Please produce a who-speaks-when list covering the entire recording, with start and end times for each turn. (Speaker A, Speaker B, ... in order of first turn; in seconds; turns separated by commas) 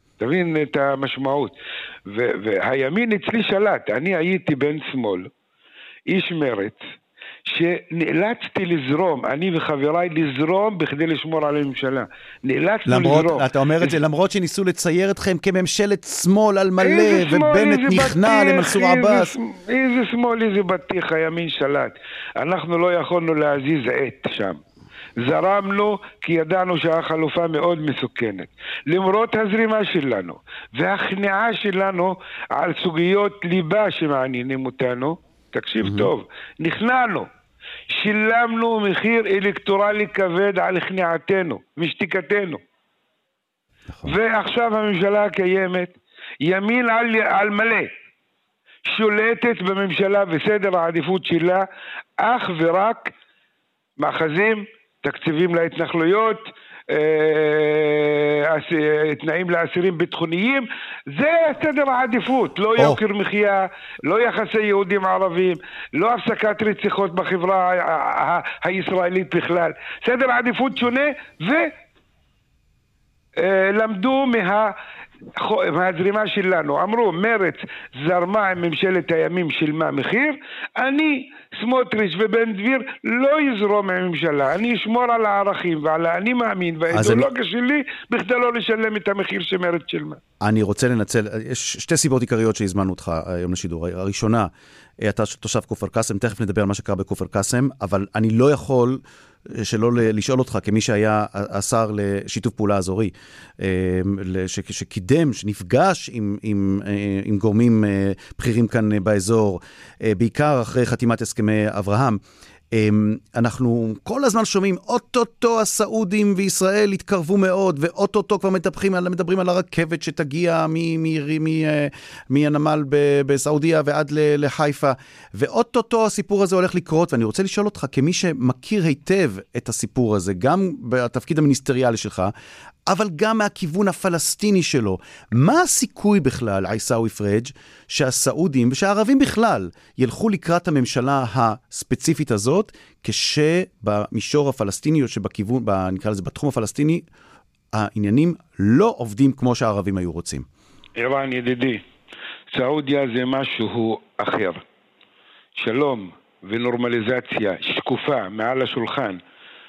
Speaker A: 0.2-1.5, Speaker A: 2.1-5.3, Speaker A: 6.1-6.8, Speaker A: 7.5-13.9, Speaker B: 12.8-19.3, Speaker A: 16.8-24.6, Speaker A: 25.2-37.3, Speaker B: 35.8-36.1, Speaker A: 37.9-42.6, Speaker A: 44.0-47.9, Speaker A: 48.9-51.6, Speaker A: 52.2-53.1, Speaker A: 54.0-71.7, Speaker A: 73.4-74.7, Speaker A: 75.3-90.2, Speaker B: 86.9-87.3, Speaker B: 90.4-94.5, Speaker B: 95.0-132.3, Speaker B: 132.9-147.1, Speaker B: 147.7-150.5, Speaker A: 150.9-151.8, Speaker A: 152.5-154.6, Speaker A: 155.6-159.2